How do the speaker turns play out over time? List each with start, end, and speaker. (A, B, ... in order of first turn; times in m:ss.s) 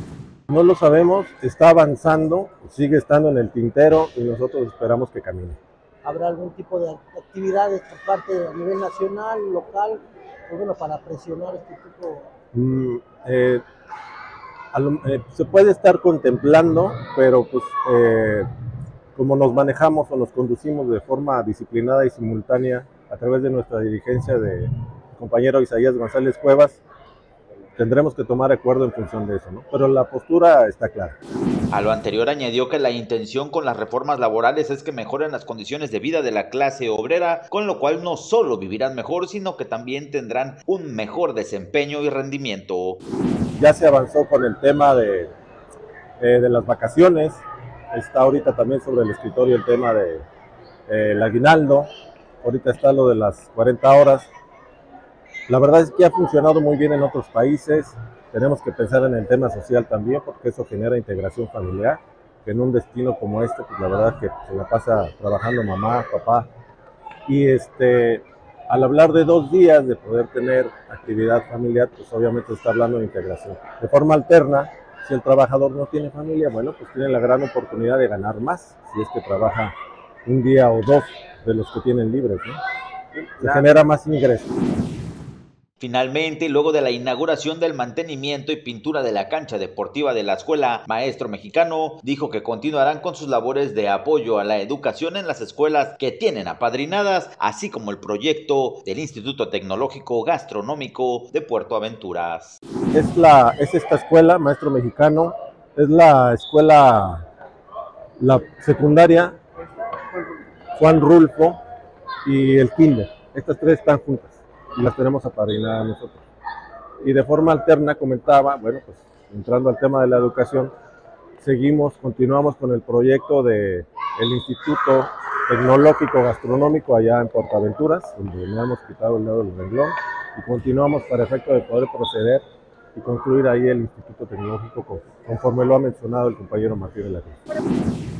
0:00.5-0:05.6 A
0:06.0-0:12.3 B
0:12.5-0:13.6 A
0:14.7-0:18.5 A
0:19.2-0:26.8 A
0:27.8-0:31.2 A
0:31.7-0:43.0 C
0:43.6-0:45.3 A
0:46.2-0:50.3 A
0:50.9-0:51.9 A
0:52.4-0:54.3 A
0:55.5-1:06.5 A
1:07.3-1:19.7 A
1:20.3-1:22.6 A
1:23.4-1:24.5 A
1:25.8-1:42.6 C
1:42.9-1:47.3 A
1:48.2-1:49.4 A
1:50.8-1:51.6 A
1:52.2-1:56.2 A
1:57.0-2:00.7 A
2:01.4-2:12.4 A
2:13.0-2:17.4 A